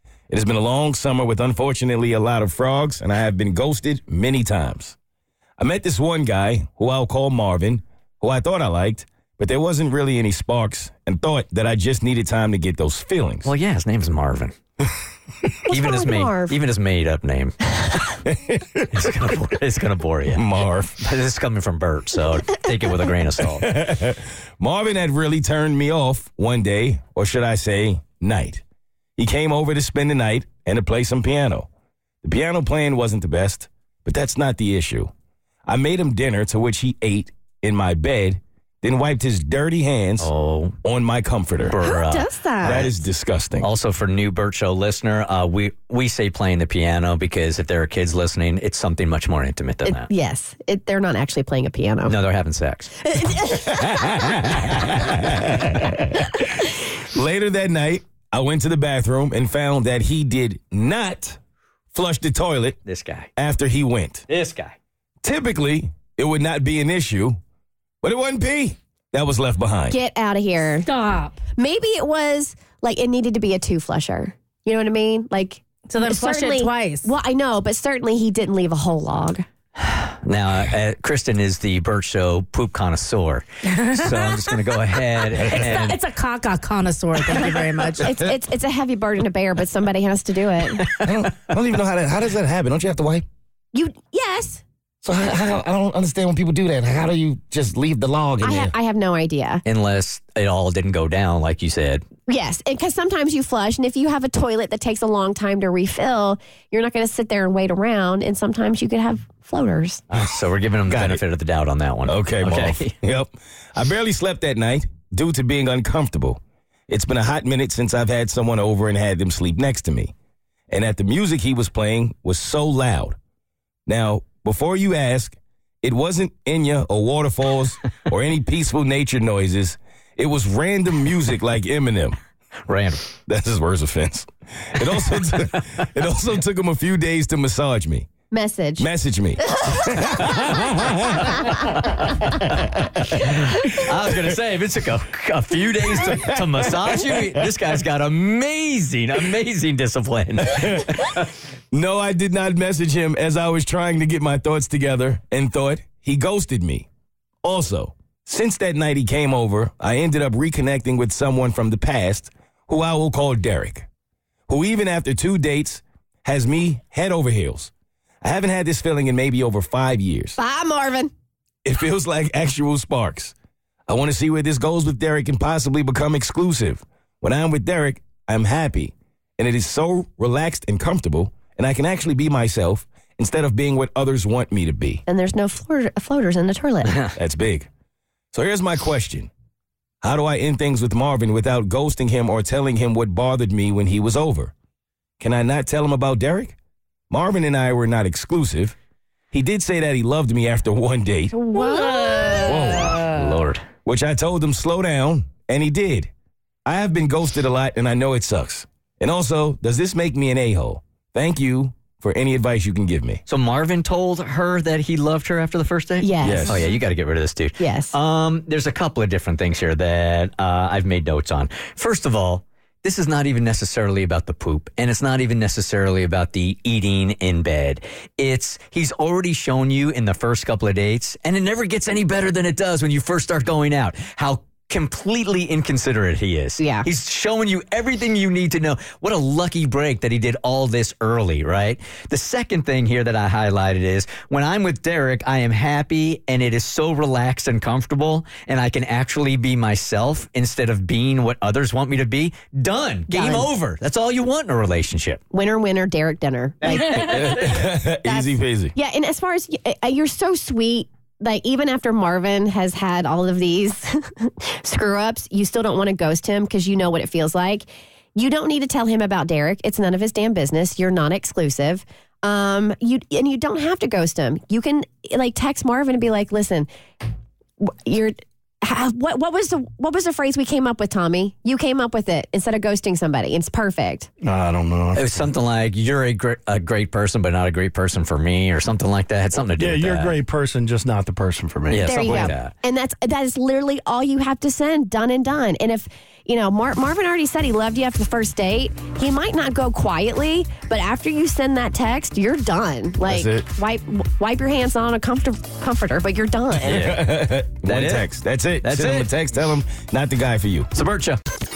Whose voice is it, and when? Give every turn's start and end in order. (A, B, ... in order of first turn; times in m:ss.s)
0:00.3-0:05.0 A
0:05.6-0:13.5 A
0:13.4-0:14.6 B
0:15.7-0:16.6 C
0:15.7-0:17.6 B
0:18.3-0:18.9 A
0:18.9-0:20.4 B
0:20.3-0:21.0 A
0:21.0-0:23.7 B
0:23.6-0:28.6 A
0:29.2-0:31.7 A
0:32.2-0:35.1 A
0:35.7-0:40.3 A
0:40.2-0:40.8 B
0:40.8-0:41.8 A
0:41.6-0:42.9 B
0:41.8-0:43.0 C
0:42.6-0:43.7 A
0:43.6-0:50.1 B
0:49.8-0:52.2 C
0:52.1-0:52.9 B
0:53.0-0:54.2 C
0:53.6-0:56.4 A
0:57.1-1:01.4 A
1:01.9-1:02.8 A
1:02.8-1:03.3 B
1:03.4-1:04.2 A
1:04.3-1:04.8 B
1:05.2-1:07.4 A
1:08.0-1:10.0 A
1:09.9-1:10.9 C
1:10.8-1:11.4 D
1:11.6-1:19.4 C
1:15.9-1:17.1 D
1:19.8-1:26.0 B
1:23.7-1:24.6 D
1:25.4-1:28.1 D
1:27.3-1:31.0 C
1:30.9-1:31.3 B
1:30.9-1:33.2 A
1:33.7-1:34.6 C
1:35.0-1:38.7 A
1:38.4-1:39.6 C
1:39.6-1:42.0 B
1:42.3-1:50.0 C
1:50.1-1:53.0 B
1:50.9-1:51.2 A
1:52.1-2:00.1 A
2:00.7-2:03.2 A
2:03.9-2:12.2 A
2:12.7-2:13.0 B
2:13.3-2:18.1 A
2:18.3-2:18.9 C
2:18.8-2:21.5 A
2:19.5-2:20.0 C
2:20.2-2:22.6 B
2:22.4-2:23.3 A
2:23.1-2:31.3 B
2:26.0-2:27.1 A
2:30.5-2:31.1 A
2:31.7-2:36.9 A
2:37.4-2:43.9 A
2:44.5-2:47.7 A
2:48.2-2:50.4 A
2:50.4-2:51.1 C
2:51.6-2:53.3 A
2:53.9-3:05.0 A
3:05.1-3:07.1 C
3:07.2-3:07.7 A
3:08.3-3:09.3 A
3:10.0-3:14.5 A
3:15.2-3:16.6 A
3:17.1-3:18.8 A
3:19.3-3:21.4 A
3:21.3-3:22.8 D
3:21.8-3:22.3 C
3:22.4-3:23.0 A
3:22.5-3:23.6 B
3:23.8-3:26.1 A
3:26.7-3:33.2 A
3:33.3-4:15.2 B
3:36.0-3:36.8 C
3:36.2-3:36.6 A
3:37.6-3:38.0 C
3:56.6-3:56.9 C
4:13.1-4:13.5 C
4:15.3-4:36.7 C
4:16.7-4:18.7 A
4:37.6-4:44.1 C
4:44.2-4:45.0 E
4:44.9-4:50.2 B
4:49.6-4:52.3 E
4:51.7-4:52.5 B
4:51.8-5:06.8 C
5:03.0-5:03.5 A
5:06.6-5:08.1 B
5:06.7-5:10.7 A
5:08.6-5:09.1 B
5:10.7-5:11.2 B